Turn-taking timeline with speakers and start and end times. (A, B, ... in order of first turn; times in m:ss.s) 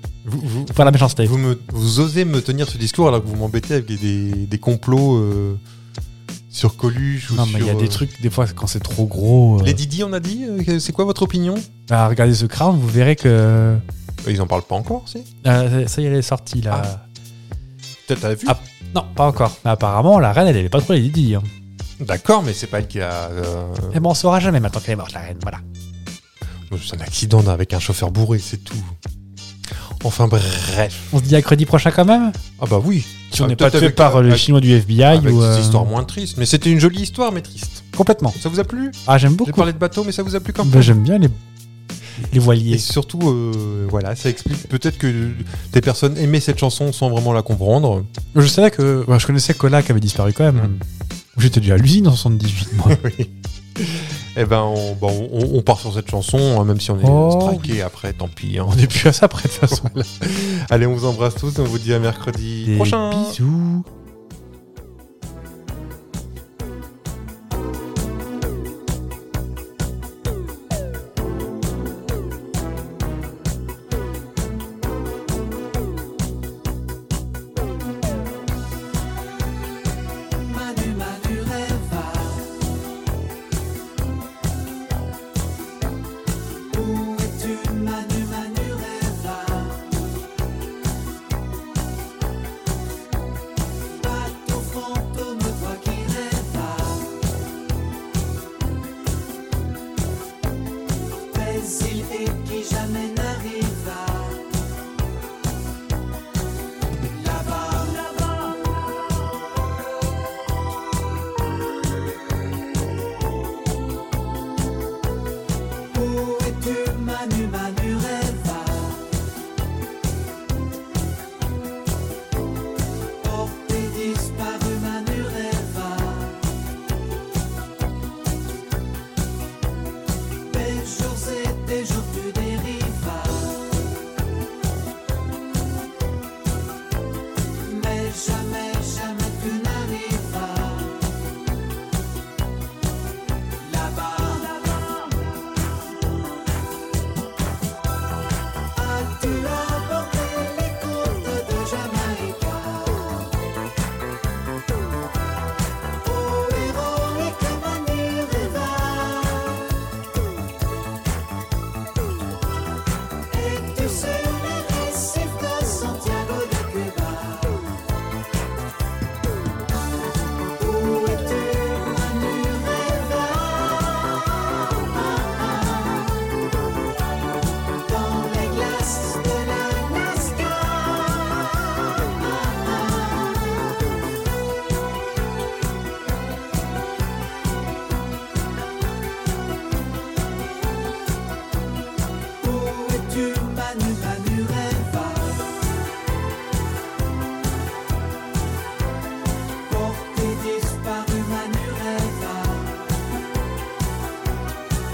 0:00.2-0:05.6 A
0:00.7-0:01.3 B
0:06.5-0:08.0 A
0:07.3-0:09.8 B
0:09.6-0:11.7 A
0:11.9-0:13.8 B
0:14.2-0:15.3 A
0:15.4-0:17.0 B
0:18.1-0:18.6 A
0:18.4-0:21.5 B
0:22.0-0:24.0 A
0:23.9-0:25.6 B
0:26.7-0:29.0 A
0:30.0-0:31.1 A
0:31.1-0:32.4 B
0:32.6-0:34.5 A
0:33.3-0:35.9 B
0:35.1-0:37.8 A
0:37.9-0:38.4 B
0:38.4-0:40.9 A
0:39.0-0:39.7 B
0:40.6-0:41.4 B
0:42.2-0:42.8 B
0:42.7-0:48.1 A
0:48.3-0:50.8 B
0:51.3-0:53.0 B
0:52.9-0:58.8 A
0:57.0-0:57.8 B
0:58.6-1:00.0 B
0:59.7-1:03.4 A
1:02.6-1:03.8 B
1:20.3-1:22.6 C
1:26.7-1:30.0 C
1:33.9-1:37.2 C
1:41.3-1:44.5 C
1:47.1-1:48.9 C
1:55.9-1:59.1 C
2:03.2-2:06.4 C
2:10.4-2:13.7 C
2:17.6-2:21.1 C
2:23.6-2:25.2 C
2:28.7-2:33.3 C
2:36.0-2:39.7 C
2:43.3-2:47.7 C
2:50.5-2:56.2 C
2:57.8-3:03.8 C
3:12.4-3:15.5 C
3:19.6-3:22.8 C